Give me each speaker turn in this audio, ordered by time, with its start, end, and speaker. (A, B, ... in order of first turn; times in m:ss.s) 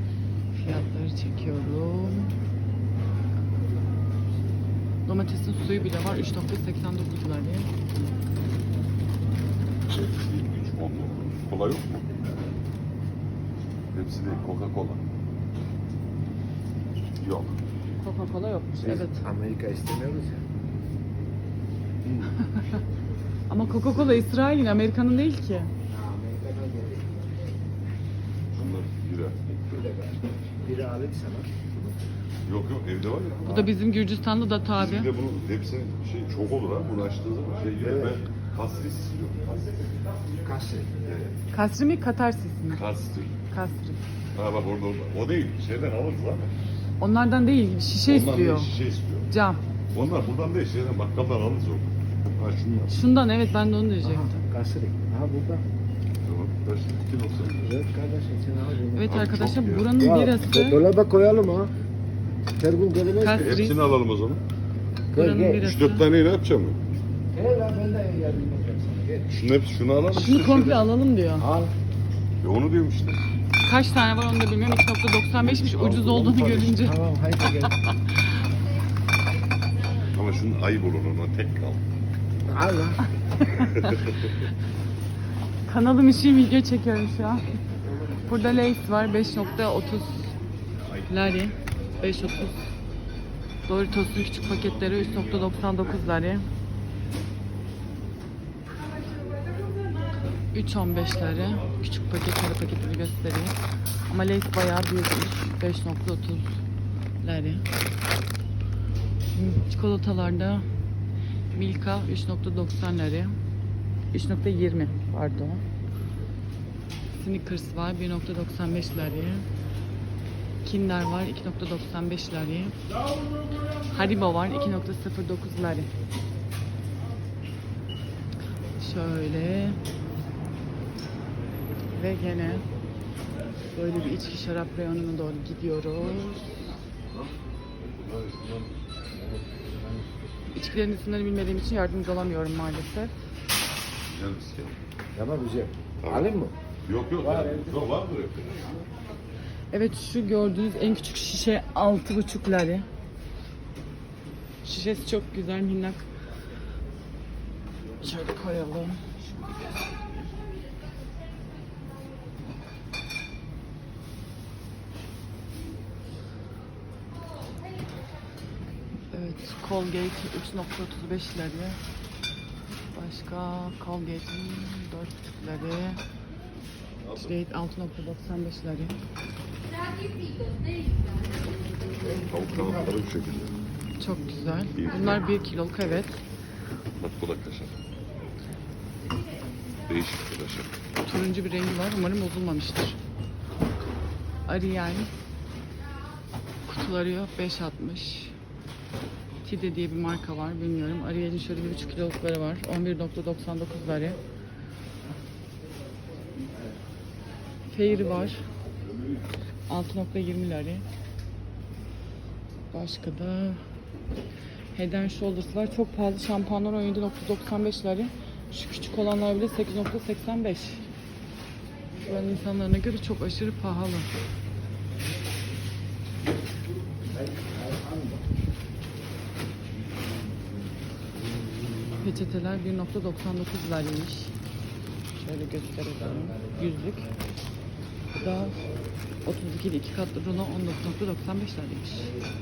0:00.5-0:02.3 A
0:05.0-0:07.7 A
0:09.9-0:12.0 B
0:13.9-0:15.0 B
0:17.2-0:17.6 B
0:18.0-0:19.3 A
0:18.8-0:20.4 C
0:22.0-0:22.3 B
0:22.4-0:22.8 A
0:23.5-0:25.7 A
0:25.9-0:27.3 C
0:28.5-0:29.5 B
0:29.6-0:32.0 C
0:32.4-0:33.6 B
0:33.4-0:33.7 C
0:33.4-0:35.1 A
0:34.7-0:39.8 B
0:37.8-0:38.2 C
0:40.4-0:40.9 C
0:41.0-0:41.4 B
0:41.5-0:42.8 A
0:42.7-0:43.3 B
0:43.5-0:44.0 A
0:44.3-0:46.5 B
0:47.0-0:48.7 A
0:48.0-0:49.3 B
0:49.3-0:49.6 A
0:49.9-0:52.9 B
0:52.9-0:54.4 A
0:54.0-0:55.6 C
0:56.2-0:57.6 B
0:57.5-0:59.2 C
0:58.9-1:00.8 A
0:59.0-1:00.0 B
1:00.0-1:01.7 C
1:02.6-1:03.5 C
1:03.1-1:03.8 A
1:03.3-1:04.4 B
1:05.1-1:05.6 C
1:05.1-1:06.0 A
1:05.6-1:06.8 B
1:07.3-1:09.4 C
1:09.3-1:10.8 B
1:10.1-1:11.5 A
1:11.4-1:11.7 C
1:12.4-1:13.2 B
1:13.6-1:17.0 A
1:15.3-1:16.9 B
1:16.8-1:17.8 C
1:17.6-1:18.3 A
1:20.1-1:21.8 B
1:22.4-1:23.0 C
1:23.4-1:24.2 A
1:23.8-1:24.3 B
1:25.6-1:27.4 A
1:28.2-1:30.3 A
1:31.1-1:32.7 A
1:33.7-1:36.5 A
1:34.9-1:35.4 B
1:40.5-1:43.6 A
1:44.1-1:46.6 A
1:47.2-1:47.6 A
1:49.3-1:50.7 A
1:51.5-1:53.3 A
1:54.1-1:55.6 A
1:57.1-1:59.5 A
2:00.6-2:02.8 A
2:03.9-2:05.9 A
2:08.8-2:09.8 A
2:11.9-2:12.6 A
2:13.7-2:16.7 A
2:17.8-2:18.7 B
2:19.1-2:20.0 C
2:20.5-2:23.1 A
2:24.0-2:24.8 B
2:25.1-2:26.5 C
2:26.0-2:26.3 B
2:26.8-2:28.8 B
2:27.2-2:27.7 C
2:29.7-2:32.8 A
2:34.6-2:36.0 A
2:38.0-2:40.3 A
2:49.1-2:51.8 A
2:52.9-2:56.0 A
2:57.0-2:57.3 B
2:57.1-2:59.0 A
3:02.1-3:03.5 B
3:04.0-3:06.2 A
3:04.7-3:05.2 B
3:07.0-3:07.8 B
3:09.8-3:10.7 B
3:11.0-3:13.0 A
3:14.4-3:15.1 A
3:16.7-3:18.3 A
3:19.4-3:24.2 A
3:27.7-3:28.4 A
3:29.7-3:30.8 A
3:32.7-3:33.6 A
3:34.7-3:40.9 A
3:42.0-3:44.1 A
3:47.1-3:48.3 C
3:52.0-3:54.3 A
3:55.1-3:57.1 A
3:56.0-3:57.3 C
3:58.1-3:58.6 A
3:59.2-4:02.1 A